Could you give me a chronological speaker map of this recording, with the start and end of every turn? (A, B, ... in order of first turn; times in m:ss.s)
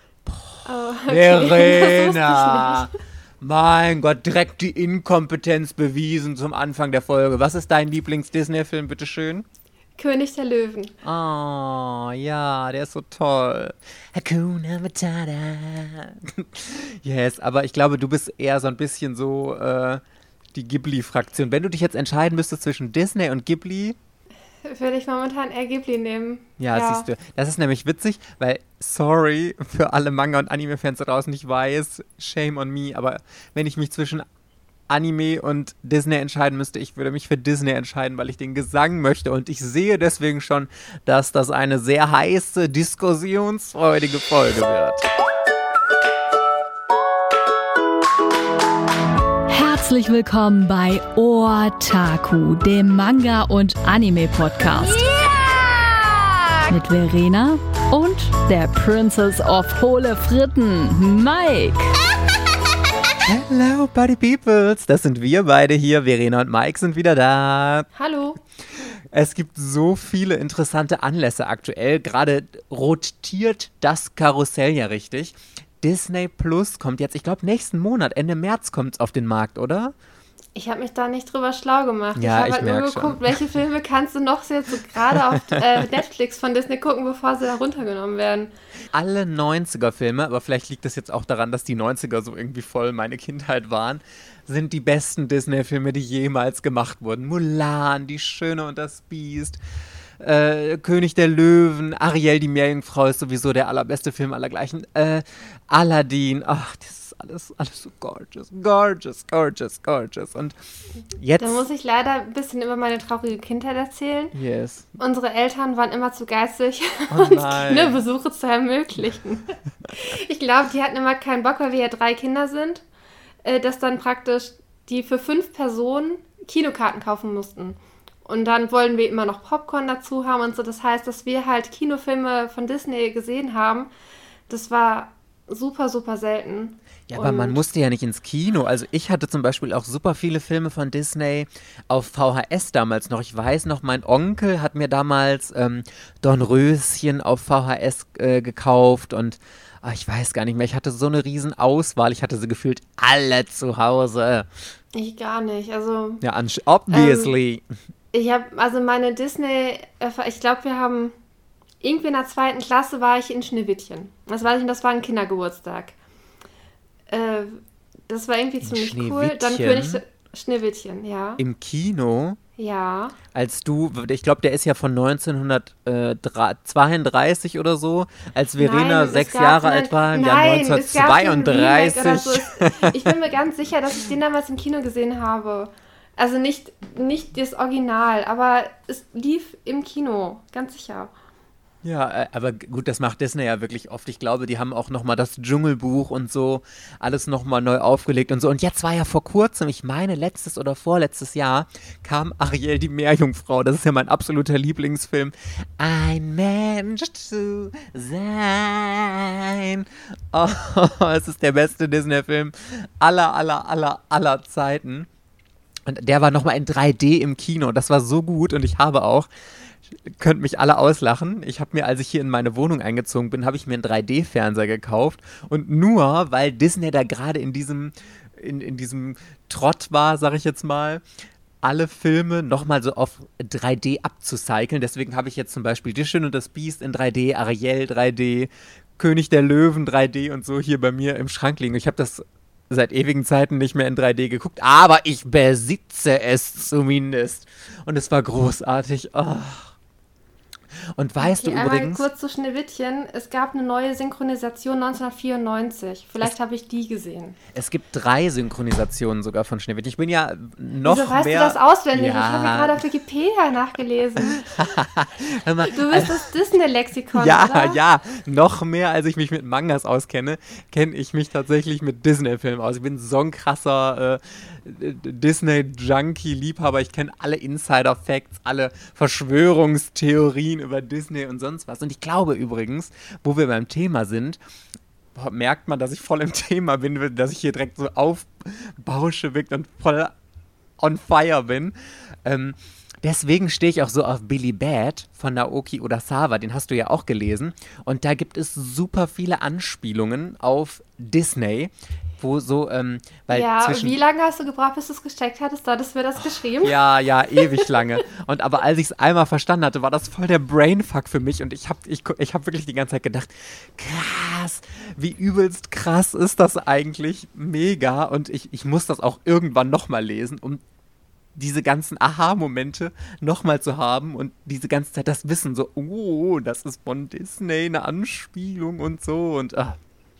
0:00.2-0:09.4 A
0:00.6-0:02.9 B
0:10.0-0:10.9 B
0:11.0-0:20.0 A
0:20.5-0:24.0 A
0:24.6-0:27.1 B
0:26.6-0:34.2 A
0:34.9-0:45.0 A
0:49.5-0:55.3 C
0:56.7-1:02.0 C
1:03.2-1:07.9 A
1:08.0-1:08.4 B
1:09.1-1:19.9 A
1:20.5-1:28.5 B
1:22.1-1:23.4 A
1:25.0-1:25.8 A
1:28.9-1:39.6 A
1:40.2-1:50.6 A
1:51.1-1:51.6 A
1:51.4-1:54.3 B
1:54.3-1:54.9 A
1:55.0-2:02.8 B
1:57.1-1:58.0 A
2:03.4-2:13.9 B
2:14.5-2:17.6 B
2:17.1-2:34.5 A
2:34.9-2:36.2 B
2:36.2-2:37.6 A
2:36.9-2:37.3 B
2:38.1-2:41.1 B
2:41.8-2:45.9 B
2:47.1-2:51.4 B
2:48.6-2:50.0 A
2:51.4-2:52.4 A
2:52.6-2:53.2 B
2:53.3-3:03.1 A
2:58.6-3:11.1 B
3:11.8-3:35.1 A
3:35.9-3:39.3 A
3:39.9-3:51.0 A
3:51.6-4:09.7 A
4:11.0-4:12.0 A
4:11.2-4:17.4 B
4:17.5-4:22.8 A
4:20.8-4:24.5 B
4:24.2-4:26.2 A
4:25.7-4:27.8 B
4:27.1-4:44.4 A
4:45.1-4:50.1 A
4:50.8-5:04.0 A
5:03.3-5:06.8 B
5:06.6-5:20.6 A
5:07.3-5:07.8 B
5:21.4-5:29.8 A